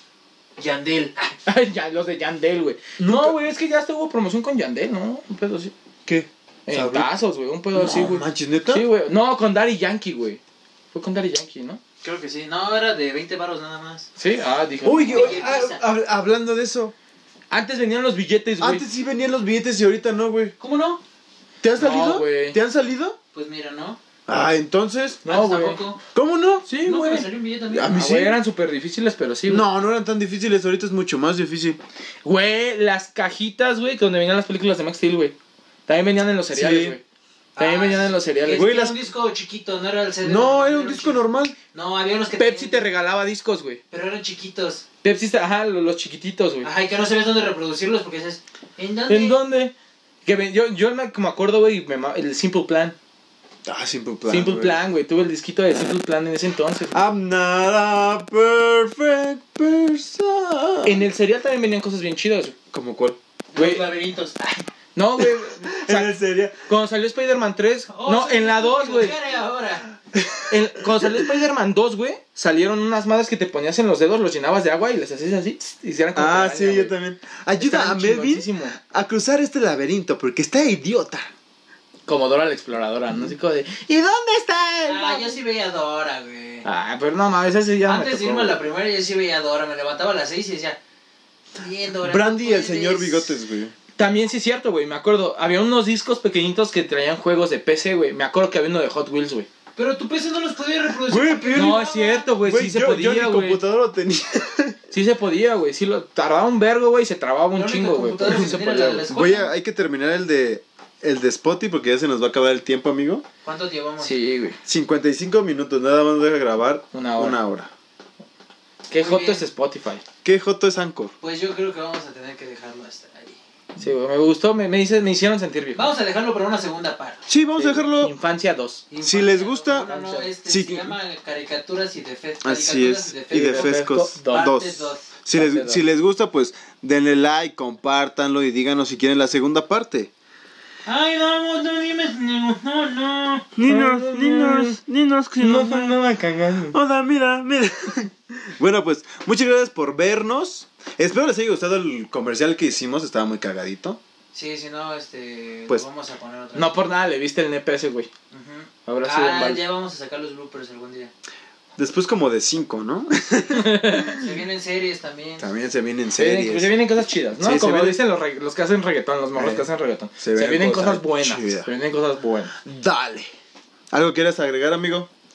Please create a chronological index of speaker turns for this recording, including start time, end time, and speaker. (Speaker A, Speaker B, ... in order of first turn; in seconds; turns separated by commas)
Speaker A: 0.6-1.3, Speaker B: 1.5-5.7, Speaker C: 3.0-3.4, Speaker C: 6.1-7.1, Speaker B: 6.7-10.4, Speaker C: 7.7-8.9, Speaker B: 10.9-11.8, Speaker A: 12.0-14.1, Speaker B: 14.2-15.4, Speaker C: 14.8-16.9, Speaker A: 15.1-15.8, Speaker B: 17.5-18.9, Speaker C: 18.6-20.5, Speaker A: 20.6-21.0, Speaker C: 21.6-23.2, Speaker B: 21.8-22.6, Speaker A: 23.3-24.0, Speaker C: 24.3-25.2, Speaker B: 25.2-25.8, Speaker A: 25.3-26.0, Speaker C: 26.1-26.7, Speaker B: 26.7-27.3, Speaker A: 26.8-28.0, Speaker C: 27.7-28.4, Speaker B: 27.9-29.7, Speaker C: 29.5-31.8, Speaker B: 32.2-35.4, Speaker B: 35.9-37.0, Speaker C: 36.5-37.0, Speaker A: 37.6-42.9, Speaker B: 37.6-38.7, Speaker C: 38.5-38.9, Speaker C: 40.2-41.6, Speaker B: 42.4-43.8, Speaker A: 43.9-44.9, Speaker B: 45.0-46.7, Speaker A: 46.6-49.4, Speaker B: 49.1-49.7, Speaker B: 50.2-53.0, Speaker C: 53.6-54.8, Speaker B: 54.3-57.0, Speaker C: 56.9-61.0, Speaker B: 60.8-62.5, Speaker C: 62.7-63.2, Speaker A: 63.5-64.7, Speaker B: 63.5-63.9, Speaker B: 65.0-66.2, Speaker C: 65.2-66.6, Speaker B: 66.7-69.2, Speaker A: 67.9-69.9, Speaker C: 70.1-71.2, Speaker B: 70.5-76.9, Speaker C: 76.2-81.3, Speaker B: 77.6-78.8, Speaker B: 82.1-85.4, Speaker A: 84.9-86.7, Speaker B: 86.6-88.6, Speaker A: 87.9-90.8, Speaker A: 91.6-93.3, Speaker C: 92.0-93.7, Speaker B: 94.0-99.5, Speaker A: 99.8-102.3, Speaker C: 101.1-101.8, Speaker B: 101.5-103.6, Speaker C: 102.4-104.8, Speaker B: 104.9-109.1, Speaker A: 107.5-109.5, Speaker C: 108.2-108.5, Speaker C: 109.1-113.2, Speaker A: 113.4-114.2, Speaker B: 114.0-114.6, Speaker C: 114.7-117.7, Speaker B: 116.9-117.4, Speaker B: 118.9-120.0, Speaker A: 119.0-119.5, Speaker C: 120.2-121.1, Speaker A: 121.2-123.4, Speaker B: 123.8-125.9, Speaker A: 125.8-127.3, Speaker C: 127.3-128.1, Speaker B: 127.6-128.8, Speaker A: 128.9-135.1, Speaker C: 129.0-129.9, Speaker B: 129.8-130.3, Speaker C: 130.4-130.9, Speaker C: 132.4-140.1, Speaker B: 133.4-134.5, Speaker B: 135.3-135.8, Speaker A: 140.9-143.5, Speaker C: 143.6-146.0, Speaker B: 143.6-144.8, Speaker B: 145.4-146.8, Speaker C: 146.7-154.0, Speaker A: 154.3-156.8, Speaker B: 156.6-158.1, Speaker A: 158.3-161.1, Speaker B: 158.9-159.6, Speaker C: 161.8-164.3, Speaker B: 163.5-164.3, Speaker A: 164.2-165.5, Speaker C: 165.4-166.7, Speaker B: 166.2-172.5, Speaker C: 167.4-168.0, Speaker C: 169.3-169.7, Speaker C: 170.2-171.7, Speaker C: 172.6-173.3, Speaker C: 173.9-175.1